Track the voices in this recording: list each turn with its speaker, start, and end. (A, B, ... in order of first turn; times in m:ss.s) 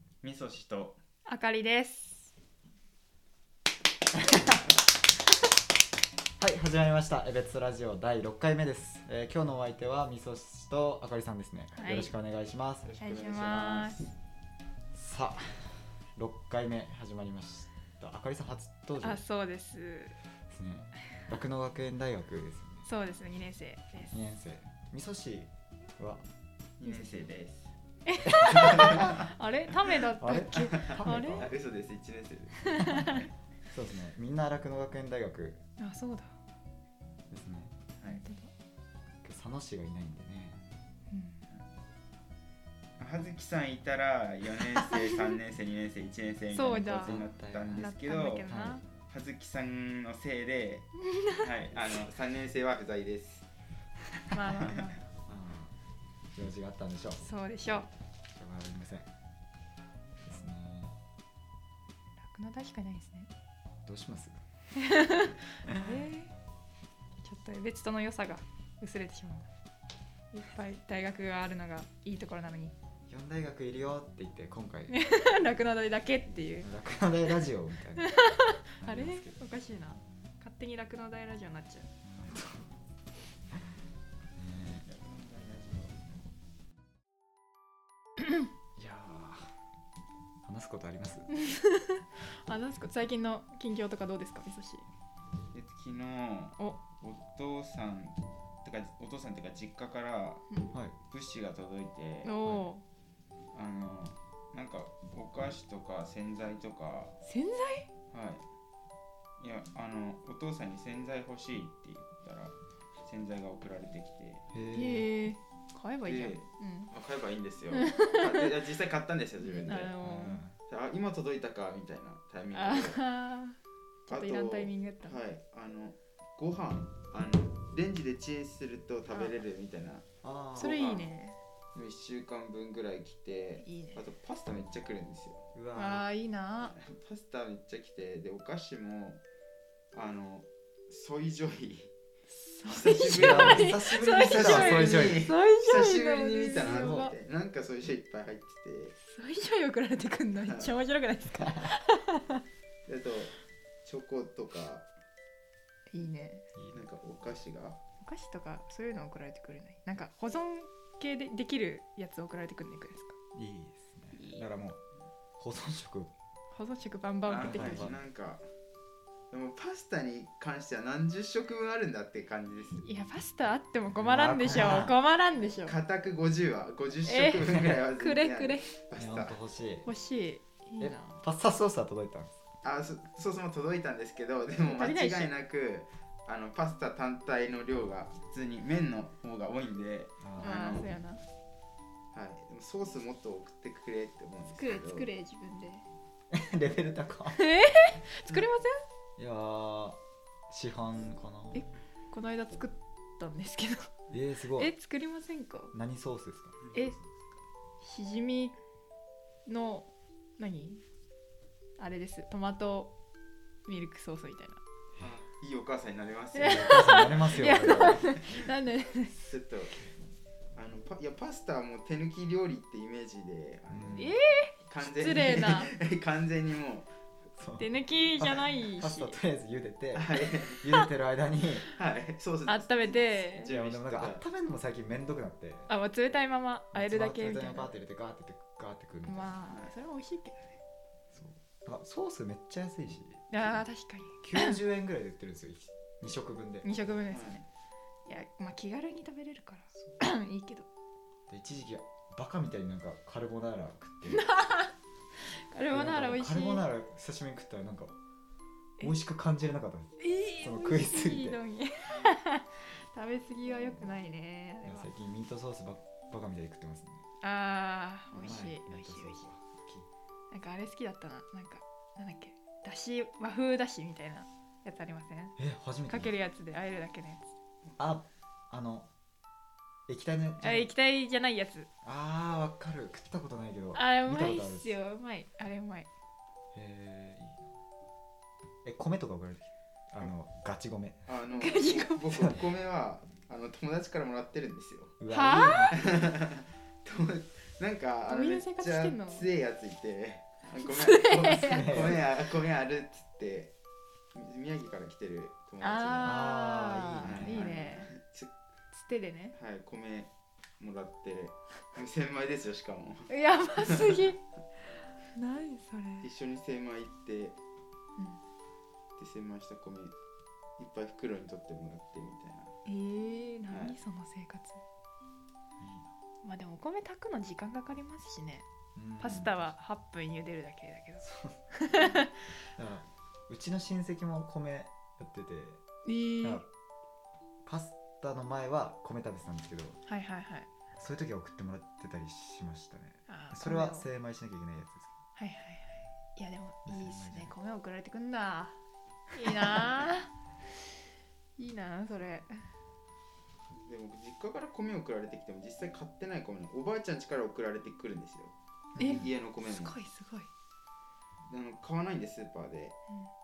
0:00.2-0:01.0 A
0:01.3-0:02.3 B
0:04.2-0:04.6 C
0:06.4-0:12.9 C
0:11.8-0:12.1 B
0:12.8-0:14.1 A
0:13.0-0:14.0 B
0:14.9-0:19.2 C
0:19.0-0:20.2 B
0:20.5-0:22.9 C
0:22.9-0:24.2 B
0:24.1-0:26.2 C
0:26.8-0:27.7 A
0:26.8-0:27.1 B
0:28.1-0:31.5 B
0:28.2-0:29.3 C
0:28.4-0:29.3 A
0:30.2-0:31.5 C
0:30.5-0:33.3 A
0:32.6-0:33.3 B
0:33.7-0:35.6 C
0:35.8-0:36.3 B
0:37.3-0:37.8 C
0:38.0-0:38.5 B
0:39.2-0:40.6 C
0:41.1-0:41.5 B
0:43.0-0:48.5 A
0:46.5-0:48.8 B
0:47.0-0:47.9 C
0:48.5-0:48.8 C
0:49.1-0:53.5 A
0:51.0-0:51.5 B
0:54.3-0:55.0 B
0:54.5-0:54.8 A
0:55.3-0:55.7 C
0:56.4-0:57.2 C
0:57.2-0:57.9 B
0:58.4-0:59.1 C
1:00.2-1:01.0 C
1:02.2-1:03.3 B
1:03.8-1:04.4 C
1:04.8-1:06.3 B
1:05.7-1:06.1 C
1:07.2-1:09.5 B
1:10.3-1:12.7 B
1:13.1-1:15.0 C
1:14.9-1:16.7 B
1:16.6-1:18.2 C
1:18.0-1:21.9 B
1:18.8-1:19.4 C
1:22.0-1:22.7 C
1:24.4-1:24.8 C
1:24.8-1:26.1 A
1:28.8-1:29.5 C
1:30.4-1:31.3 C
1:31.3-1:34.9 B
1:35.5-1:40.4 A
1:41.1-1:42.4 A
1:42.2-1:42.8 B
1:42.4-1:42.7 C
1:43.5-1:47.2 A
1:47.2-1:47.9 B
1:48.1-1:48.4 A
1:49.4-1:54.5 A
1:54.5-1:55.1 C
1:54.7-1:56.9 B
1:56.0-2:00.0 A
1:57.7-1:58.5 B
1:59.4-2:00.4 B
2:00.0-2:00.6 C
2:00.7-2:03.0 A
2:02.5-2:05.2 B
2:04.1-2:10.0 A
2:10.2-2:10.8 C
2:10.6-2:11.1 A
2:10.6-2:11.4 B
2:11.8-2:15.4 A
2:13.6-2:14.0 B
2:15.6-2:16.1 C
2:15.8-2:16.7 B
2:16.6-2:19.2 A
2:19.9-2:21.9 A
2:22.3-2:27.1 B
2:22.7-2:29.0 A
2:23.0-2:25.2 C
2:26.6-2:27.1 C
2:29.1-2:32.4 B
2:30.4-2:30.8 A
2:31.4-2:31.7 C
2:32.9-2:34.9 A
2:35.9-2:36.4 B
2:36.6-2:36.9 C
2:36.7-2:37.8 A
2:38.0-2:43.2 B
2:43.4-2:44.8 C
2:44.2-2:44.4 B
2:45.4-2:46.1 C
2:46.5-2:47.9 B
2:47.3-2:48.4 A
2:47.4-2:48.0 C
2:49.3-2:52.8 A
2:52.8-2:55.8 B
2:54.0-2:55.0 C
2:55.6-2:59.4 A
2:57.0-2:58.7 B
2:59.0-2:59.9 C
2:59.8-3:01.2 B
3:00.8-3:02.3 C
3:02.6-3:10.9 A
3:04.6-3:05.3 B
3:10.2-3:10.6 C
3:10.4-3:11.2 B
3:12.1-3:15.1 A
3:14.5-3:15.9 B
3:16.3-3:17.4 C
3:17.4-3:18.8 B
3:19.2-3:20.0 C
3:20.5-3:21.6 C
3:21.5-3:23.9 B
3:24.1-3:24.7 C
3:24.6-3:25.7 B
3:25.7-3:26.6 C
3:26.6-3:27.2 A
3:27.8-3:28.6 B
3:29.5-3:30.8 B
3:31.8-3:32.9 B
3:33.7-3:34.6 B
3:35.0-3:35.2 C
3:35.0-3:38.1 A
3:36.4-3:39.2 B
3:36.4-3:38.2 C
3:39.3-3:39.8 A
3:40.6-3:44.0 A
3:43.7-3:44.2 C
3:44.0-3:45.7 B
3:44.7-3:46.9 A
3:47.4-3:47.7 C
3:47.6-3:49.2 B
3:48.2-3:51.7 C
3:50.0-3:50.6 A
3:51.7-3:54.2 A
3:52.5-3:53.5 B
3:53.4-3:55.7 C
3:55.7-3:57.7 B
3:56.7-3:59.4 C
3:59.1-4:00.6 B
4:01.1-4:03.2 C
4:03.3-4:04.6 B
4:04.2-4:06.8 C
4:06.6-4:07.4 B
4:07.1-4:07.4 A
4:08.1-4:10.7 B
4:11.3-4:14.3 C
4:14.1-4:14.7 B
4:15.3-4:16.7 B
4:15.7-4:18.0 C
4:18.8-4:21.4 C
4:20.0-4:24.9 B
4:24.6-4:27.0 C
4:27.2-4:29.2 B
4:28.2-4:29.9 C
4:30.3-4:35.4 B
4:35.4-4:36.1 C
4:35.9-4:37.3 B
4:37.8-4:38.9 C
4:39.9-4:40.7 C
4:40.4-4:41.7 B
4:41.8-4:44.8 C
4:43.8-4:45.9 B
4:46.5-4:47.5 C
4:48.6-4:51.0 C
4:51.1-4:55.0 A
4:51.3-4:52.3 B
4:55.0-4:55.8 C
4:55.1-4:55.8 B
4:55.8-5:03.5 A
4:58.1-4:59.3 B
5:00.7-5:01.8 B
5:01.4-5:02.0 C
5:04.1-5:06.3 A
5:05.6-5:07.9 B
5:06.0-5:07.5 C
5:07.0-5:08.3 A
5:08.7-5:09.4 B
5:09.4-5:14.1 A
5:13.1-5:14.2 B
5:15.2-5:16.1 B
5:16.0-5:17.4 A
5:19.0-5:19.9 A
5:20.6-5:22.5 A
5:22.7-5:24.6 B
5:23.5-5:23.8 A
5:25.6-5:25.9 C
5:26.2-5:28.5 B
5:28.8-5:29.3 C
5:29.0-5:32.1 B
5:31.0-5:35.6 C
5:35.8-5:36.4 B
5:36.2-5:36.5 C
5:37.4-5:39.8 C
5:39.9-5:40.5 B
5:40.8-5:44.9 C
5:43.1-5:43.9 B
5:45.2-5:48.6 B
5:46.6-5:47.3 C
5:49.1-5:50.1 B
5:49.2-5:49.8 C
5:51.4-5:52.3 B
5:53.6-5:59.8 A
5:58.8-5:59.1 C
5:58.8-6:00.3 B
6:01.3-6:02.8 A